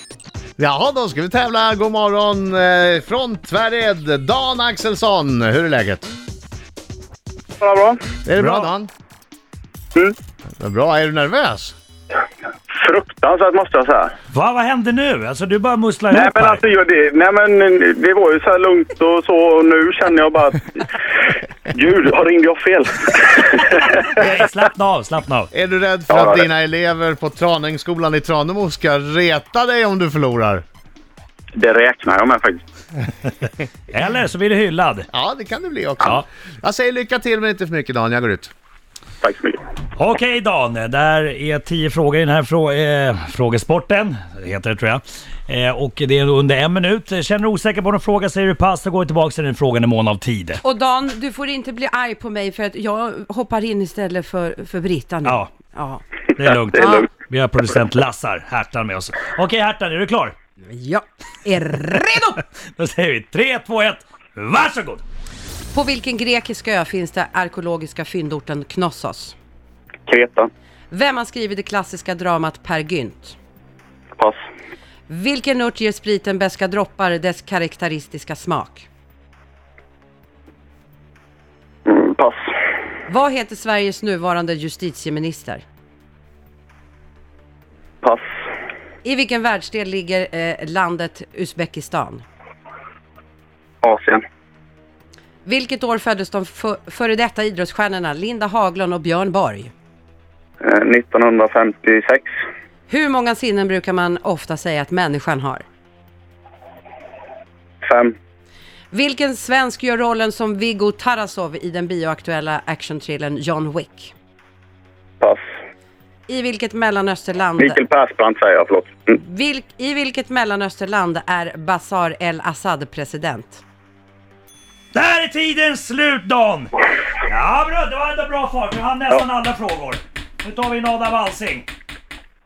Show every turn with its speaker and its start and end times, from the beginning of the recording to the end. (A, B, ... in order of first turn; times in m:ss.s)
0:00.6-0:06.1 A
0:07.6-0:08.0 B
0:08.2-0:08.9 A
0:08.4-0:08.7 C
0:10.6-0:11.8 A
0:12.7-0:14.1 B
0:14.3-0:16.6 C
0:16.1-0:24.2 B
0:24.1-0:25.5 C
0:25.5-0:30.6 A
0:26.1-0:26.4 B
0:31.6-0:32.6 B
0:33.9-0:35.1 C
0:35.1-0:38.5 A
0:39.2-0:39.6 B
0:40.0-0:50.6 C
0:50.6-0:56.0 D
0:55.2-0:55.5 C
0:56.4-1:00.4 C
0:56.5-0:57.1 D
1:00.6-1:02.4 D
1:02.8-1:05.0 C
1:05.7-1:09.4 D
1:10.1-1:10.5 B
1:10.9-1:13.4 D
1:15.1-1:18.9 D
1:21.9-1:22.5 B
1:23.1-1:25.6 D
1:29.0-1:32.2 D
1:33.8-1:34.2 B
1:35.5-1:39.7 D
1:40.6-1:42.3 B
1:42.9-1:45.6 D
1:47.8-1:48.2 B
1:48.9-1:54.1 D
1:56.3-1:57.8 D
1:57.6-1:59.1 B
1:59.2-2:03.6 D
2:04.9-2:11.7 C